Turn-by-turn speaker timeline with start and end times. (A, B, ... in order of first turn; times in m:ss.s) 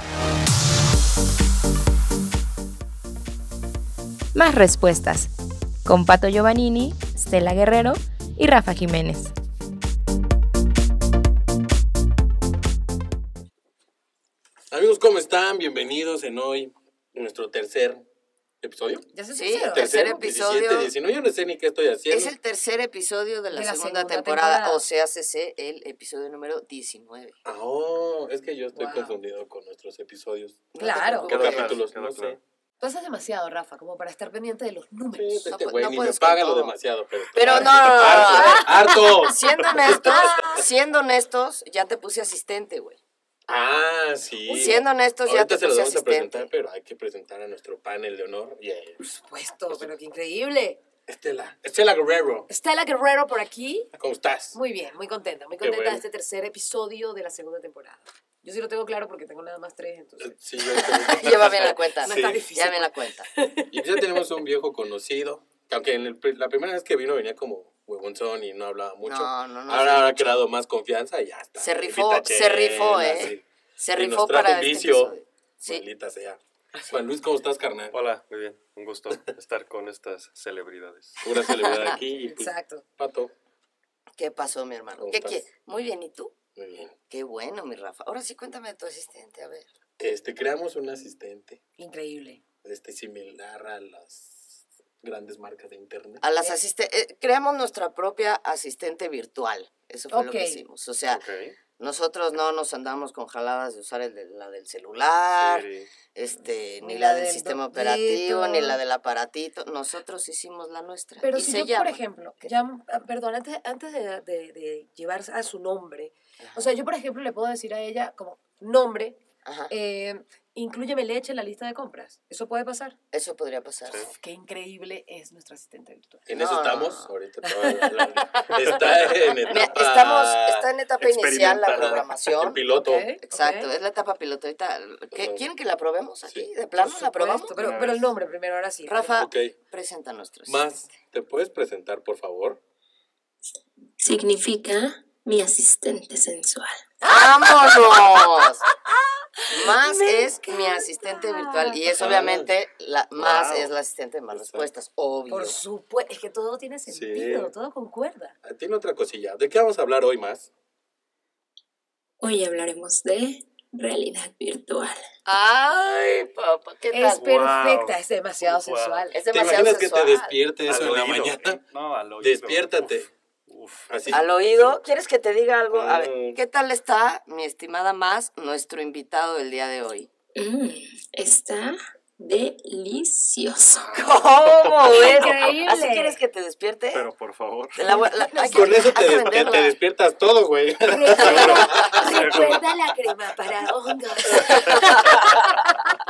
0:04.3-0:05.3 A
0:05.8-0:09.3 A
0:14.7-0:18.0 B
0:18.6-0:19.1 B
0:19.1-0:20.2 C
0:19.4-0:20.9 D
0:19.7-0:22.3 B
0:22.1-0:27.4 D
0:23.5-0:24.8 C
0:27.4-0:30.7 B
0:28.7-0:29.2 C
0:30.7-0:31.8 D
0:30.8-0:31.3 C
0:31.3-0:32.4 E
0:31.3-0:32.4 B
0:32.8-0:35.5 C
0:35.1-0:40.7 B
0:35.5-0:36.7 D
0:37.3-0:43.0 D
0:37.8-0:40.6 C
0:43.5-0:49.0 B
0:44.4-0:44.8 C
0:44.5-0:46.5 D
0:49.0-0:50.8 C
0:51.1-0:52.5 B
0:52.5-0:53.9 C
0:54.0-0:54.6 B
0:54.5-1:04.4 C
0:55.6-0:56.0 B
1:00.2-1:01.8 B
1:01.0-1:03.3 D
1:03.7-1:15.1 B
1:09.0-1:10.4 D
1:11.6-1:15.8 D
1:15.6-1:17.9 B
1:17.9-1:21.3 E
1:21.2-1:23.3 B
1:21.6-1:21.9 D
1:21.8-1:22.8 C
1:24.2-1:26.4 D
1:25.0-1:25.5 B
1:26.6-1:26.9 B
1:27.1-1:29.7 D
1:30.0-1:31.6 B
1:31.8-1:32.4 C
1:32.6-1:36.2 B
1:36.2-1:41.2 D
1:40.1-1:40.6 C
1:41.1-1:41.6 E
1:41.8-1:52.5 D
1:45.3-1:45.9 E
1:46.4-1:48.8 C
1:51.2-2:03.0 C
1:56.4-1:56.8 D
1:59.4-1:59.7 D
2:03.1-2:04.0 D
2:03.9-2:04.1 E
2:04.2-2:06.3 C
2:06.3-2:10.6 B
2:06.3-2:07.1 D
2:07.4-2:09.6 C
2:09.5-2:12.6 D
2:11.0-2:12.2 E
2:11.8-2:13.1 B
2:12.7-2:13.7 C
2:13.2-2:17.5 D
2:15.1-2:15.4 B
2:16.7-2:19.2 C
2:17.6-2:18.1 E
2:18.8-2:20.6 D
2:19.1-2:19.5 B
2:20.4-2:22.6 B
2:24.0-2:26.8 F
2:27.0-2:28.0 C
2:27.0-2:28.6 D
2:28.7-2:31.8 C
2:29.5-2:35.6 D
2:31.9-2:32.5 B
2:33.2-2:33.7 E
2:34.3-2:34.7 B
2:35.3-2:38.4 C
2:36.9-2:37.5 B
2:38.4-2:40.5 B
2:42.2-2:45.0 F
2:45.2-2:47.2 D
2:46.9-2:49.2 C
2:47.2-2:49.1 E
2:49.1-2:50.3 D
2:49.3-2:51.6 B
2:50.6-2:54.8 E
2:52.2-2:53.1 B
2:53.9-2:54.7 B
2:54.1-3:00.1 D
2:55.7-2:56.4 B
3:00.4-3:04.0 F
3:03.9-3:07.0 D
3:04.9-3:06.2 C
3:06.9-3:07.8 E
3:07.8-3:09.7 D
3:07.8-3:09.6 C
3:08.4-3:12.6 B
3:10.9-3:15.9 C
3:11.2-3:12.6 E
3:14.5-3:15.6 E
3:14.5-3:15.1 D